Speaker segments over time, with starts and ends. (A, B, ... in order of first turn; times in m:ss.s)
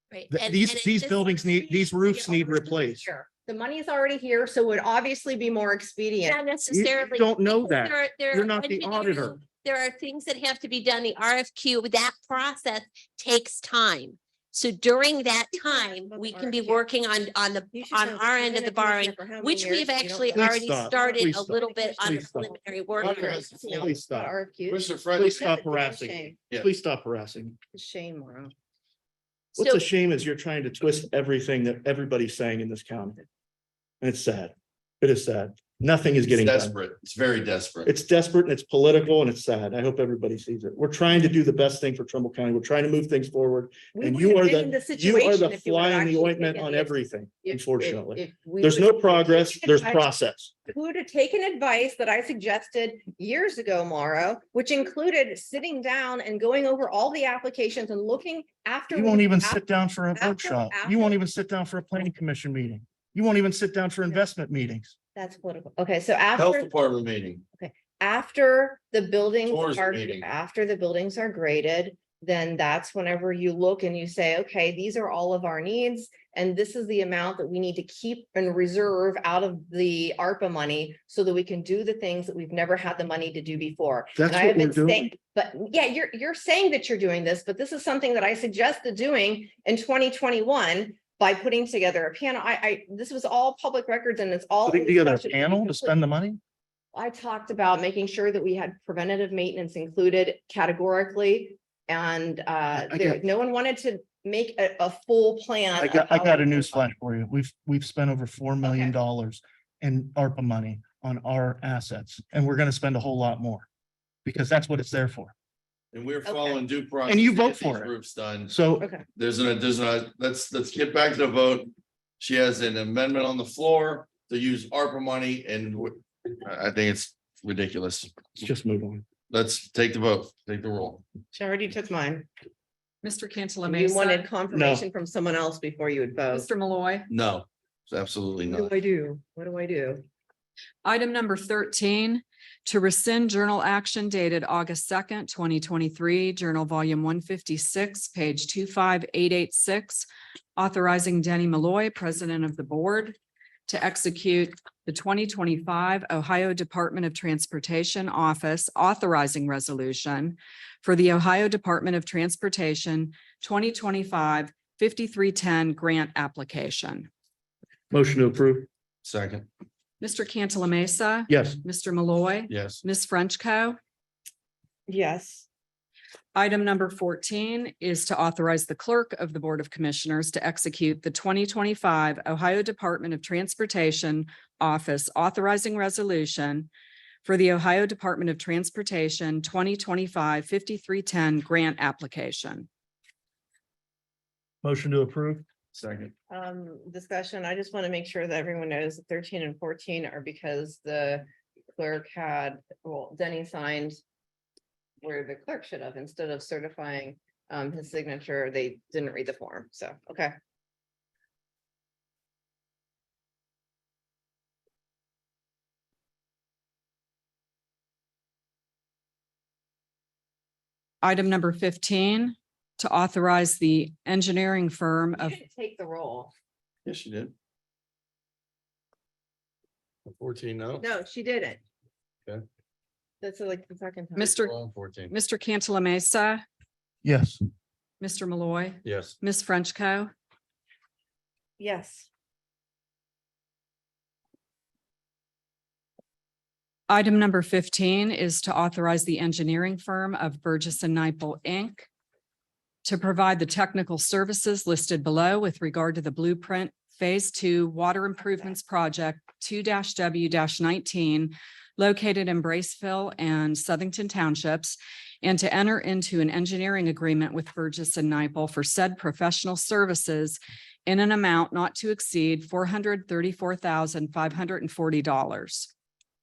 0:00.1-0:02.3 A
0:00.3-0:03.1 B
0:02.1-0:06.4 C
0:06.3-0:23.9 A
0:06.7-0:09.4 B
0:15.5-0:16.8 C
0:17.7-0:26.4 C
0:20.4-0:24.3 B
0:23.0-0:23.9 D
0:24.7-0:25.4 D
0:25.1-0:27.6 B
0:27.7-0:28.5 C
0:29.6-0:29.8 A
0:29.6-0:33.2 B
0:34.0-0:36.7 B
0:36.3-0:37.9 D
0:37.9-0:50.5 B
0:44.0-0:50.0 C
0:50.7-0:59.6 C
0:58.9-1:04.9 B
1:00.2-1:01.2 C
1:05.2-1:06.7 C
1:06.4-1:07.4 D
1:07.6-1:36.0 C
1:09.5-1:10.3 D
1:24.2-1:25.1 B
1:34.7-1:36.4 B
1:36.9-1:46.9 C
1:42.8-1:43.2 B
1:45.8-1:53.7 B
1:48.6-1:48.9 C
1:54.2-1:55.3 B
1:55.9-1:58.6 D
1:56.3-1:56.6 C
1:57.1-1:57.9 B
1:58.5-1:58.9 B
1:58.8-1:59.0 C
1:59.2-2:08.4 D
2:08.4-2:09.1 B
2:09.3-2:11.0 D
2:11.3-2:12.3 C
2:13.0-2:14.3 E
2:13.6-2:16.5 C
2:14.5-2:14.8 B
2:16.3-2:17.1 E
2:17.1-2:18.7 D
2:18.5-2:20.0 C
2:20.8-2:30.1 E
2:30.6-2:33.2 E
2:33.7-2:47.1 E
2:47.9-2:48.7 B
2:49.0-2:49.5 D
2:50.0-2:53.8 E
2:51.3-2:51.6 B
2:52.5-2:52.8 D
2:54.9-2:55.5 C
2:56.4-3:06.7 E
3:07.2-3:12.7 E
3:14.6-3:15.4 B
3:15.7-3:16.1 D
3:16.3-3:24.0 C
3:25.0-3:30.4 C
3:41.0-3:45.4 E
3:45.1-3:46.3 C
3:46.8-3:47.3 D
3:50.1-3:50.8 D
3:50.8-3:51.6 C
3:53.2-3:54.3 C
3:54.2-3:54.6 E
3:54.2-3:55.1 D
3:55.1-3:56.4 E
3:57.0-3:57.4 B
3:58.0-4:00.1 E
3:58.8-3:59.2 D
4:01.6-4:02.1 C
4:06.9-4:11.9 E
4:12.8-4:35.7 E